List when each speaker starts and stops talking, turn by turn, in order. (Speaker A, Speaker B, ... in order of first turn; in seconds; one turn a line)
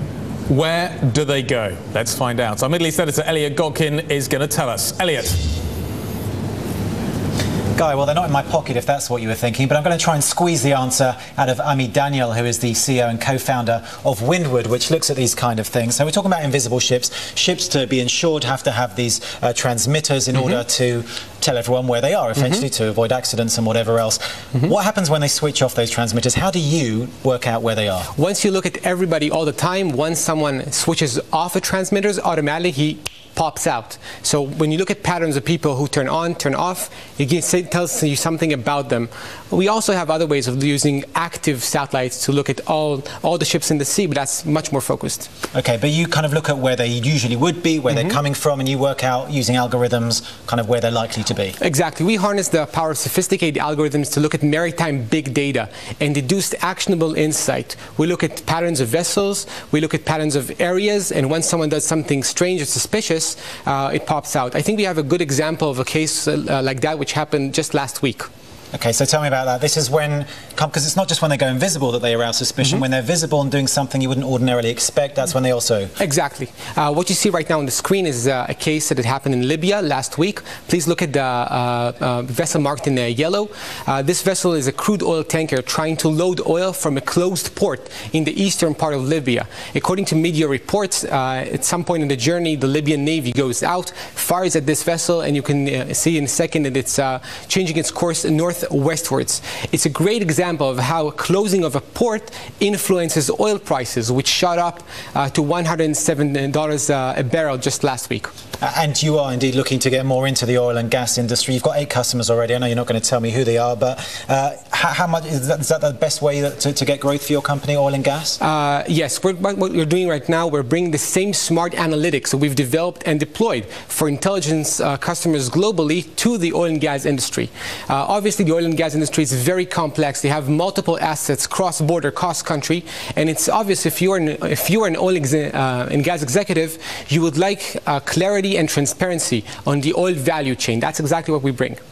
Speaker A: 0.5-5.4
Speaker B: 7.8-28.1
Speaker C: 28.1-45.3
Speaker B: 45.5-51.5
Speaker C: 51.6-68.3
Speaker B: 68.7-75.9
Speaker C: 76.0-108.3
Speaker B: 108.6-118.4
Speaker C: 118.4-141.8